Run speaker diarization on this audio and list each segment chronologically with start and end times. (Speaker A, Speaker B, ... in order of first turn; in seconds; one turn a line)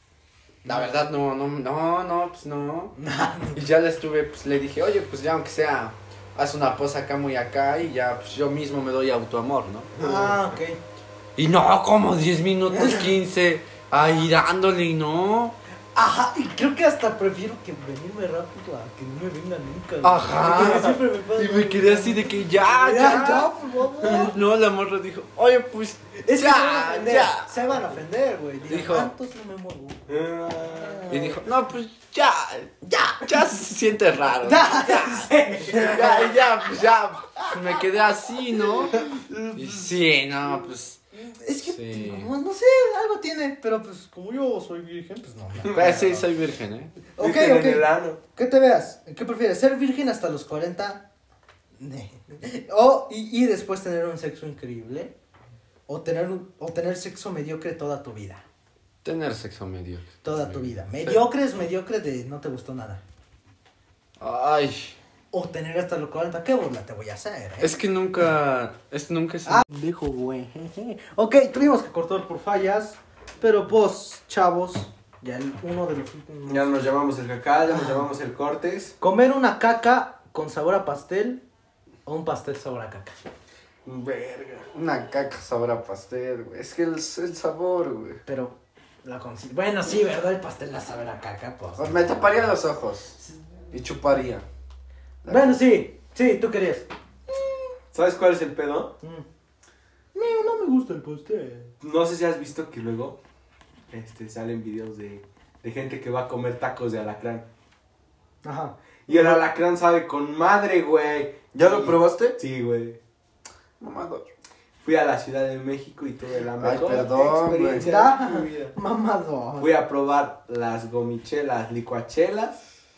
Speaker A: 0.6-3.0
Speaker B: 3.0-3.6
Speaker A: 3.5-9.9
Speaker B: 10.0-10.8
Speaker A: 11.4-15.6
Speaker B: 12.7-13.1
Speaker B: 15.9-24.4
Speaker A: 20.0-27.6
Speaker C: 23.0-23.4
Speaker B: 26.2-30.0
Speaker A: 28.7-29.1
Speaker C: 30.1-31.1
Speaker B: 30.8-31.4
Speaker A: 31.1-41.0
Speaker B: 32.9-33.3
Speaker B: 34.4-36.4
Speaker B: 37.4-37.8
Speaker B: 38.8-39.8
Speaker B: 41.1-46.2
Speaker A: 41.7-42.3
Speaker C: 45.6-46.0
Speaker A: 45.7-47.0
Speaker B: 47.2-51.0
Speaker C: 47.2-48.2
Speaker B: 51.8-55.1
Speaker B: 55.9-58.4
Speaker A: 59.0-61.2
Speaker B: 60.2-63.0
Speaker A: 64.2-65.0
Speaker B: 65.3-67.8
Speaker A: 67.6-69.6
Speaker B: 69.5-76.8
Speaker C: 76.5-78.9
Speaker B: 77.7-78.0
Speaker B: 79.0-81.4
Speaker B: 82.0-83.2
Speaker C: 83.8-84.7
Speaker A: 84.7-88.2
Speaker B: 88.2-92.3
Speaker A: 91.8-93.2
Speaker A: 93.7-94.5
Speaker A: 95.2-95.6
Speaker B: 95.2-96.9
Speaker C: 97.9-98.9
Speaker B: 100.1-101.7
Speaker C: 101.8-103.2
Speaker C: 103.9-107.4
Speaker B: 108.4-109.4
Speaker C: 109.1-113.0
Speaker A: 111.5-112.4
Speaker A: 113.8-114.3
Speaker C: 114.8-118.7
Speaker A: 116.6-117.8
Speaker B: 117.8-119.7
Speaker C: 119.6-122.6